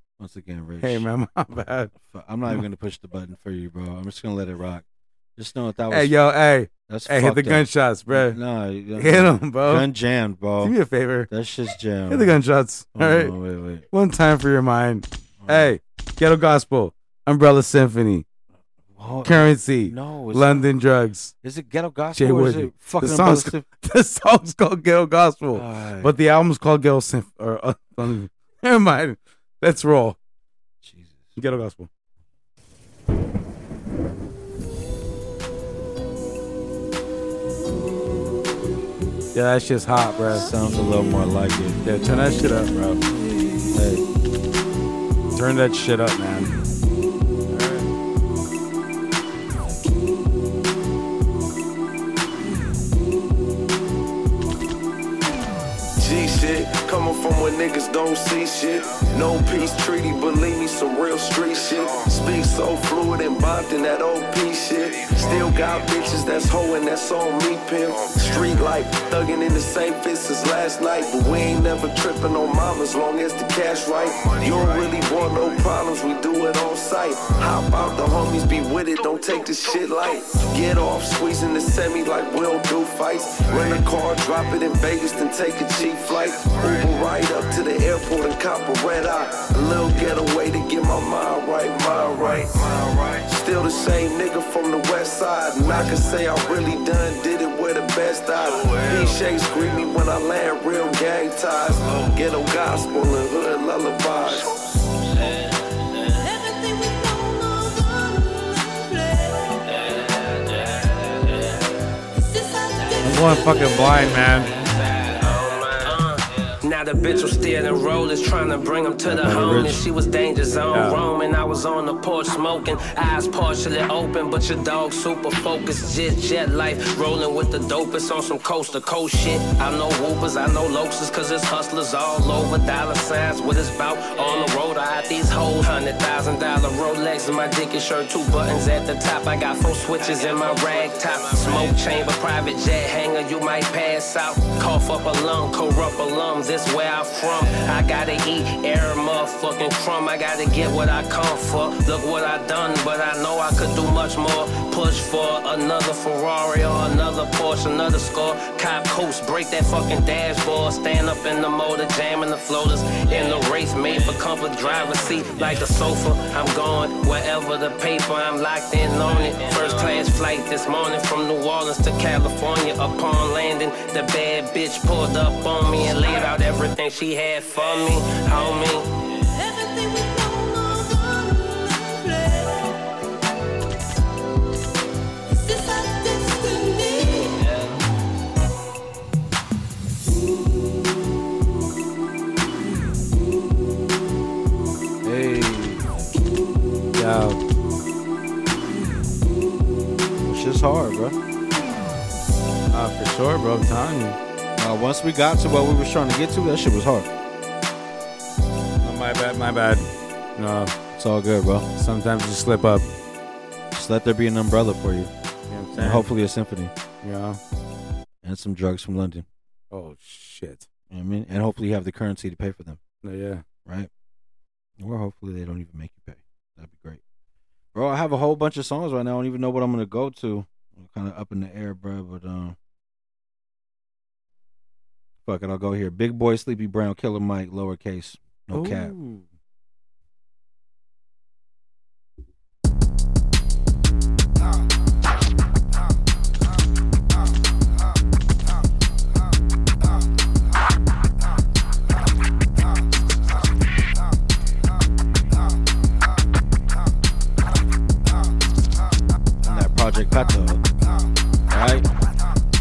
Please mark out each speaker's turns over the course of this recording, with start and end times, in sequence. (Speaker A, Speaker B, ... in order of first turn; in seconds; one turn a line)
Speaker A: 0.2-1.1
Speaker B: 0.8-1.9
Speaker A: 1.9-4.8
Speaker A: 5.4-6.2
Speaker B: 5.9-8.4
Speaker A: 6.9-10.8
Speaker B: 8.9-9.9
Speaker B: 10.6-11.3
Speaker A: 11.3-12.4
Speaker B: 12.1-13.3
Speaker A: 12.9-13.9
Speaker B: 13.9-18.2
Speaker A: 15.4-15.8
Speaker A: 18.9-20.7
Speaker B: 19.2-21.3
Speaker A: 21.4-23.6
Speaker B: 22.2-30.2
Speaker A: 25.5-26.1
Speaker A: 30.8-31.4
Speaker B: 31.4-31.9
Speaker B: 39.3-40.5
Speaker A: 40.3-41.8
Speaker B: 41.8-43.0
Speaker A: 43.7-44.0
Speaker B: 45.3-46.5
Speaker B: 47.5-47.9
Speaker C: 56.0-104.5
Speaker D: 104.2-104.6
Speaker D: 106.1-111.1
Speaker E: 109.8-110.7
Speaker D: 112.2-113.9
Speaker B: 113.0-114.5
Speaker E: 114.6-178.9
Speaker B: 119.1-119.8
Speaker A: 119.2-119.8
Speaker B: 120.7-121.1
Speaker D: 175.8-176.3
Speaker D: 179.3-182.8
Speaker D: 185.4-187.5
Speaker A: 195.0-195.9
Speaker B: 196.9-197.4
Speaker A: 200.2-201.2
Speaker B: 202.7-204.2
Speaker A: 204.6-207.1
Speaker B: 208.8-210.7
Speaker A: 210.9-211.7
Speaker B: 211.8-212.9
Speaker A: 213.7-215.1
Speaker B: 215.5-216.1
Speaker A: 215.7-216.7
Speaker B: 217.0-217.4
Speaker A: 218.2-219.3
Speaker B: 219.7-220.7
Speaker A: 220.9-222.8
Speaker B: 223.0-223.4
Speaker A: 223.7-223.9
Speaker A: 224.8-227.0
Speaker A: 227.7-232.6
Speaker A: 235.2-238.9
Speaker B: 238.5-239.3
Speaker A: 259.4-260.6
Speaker A: 261.5-261.9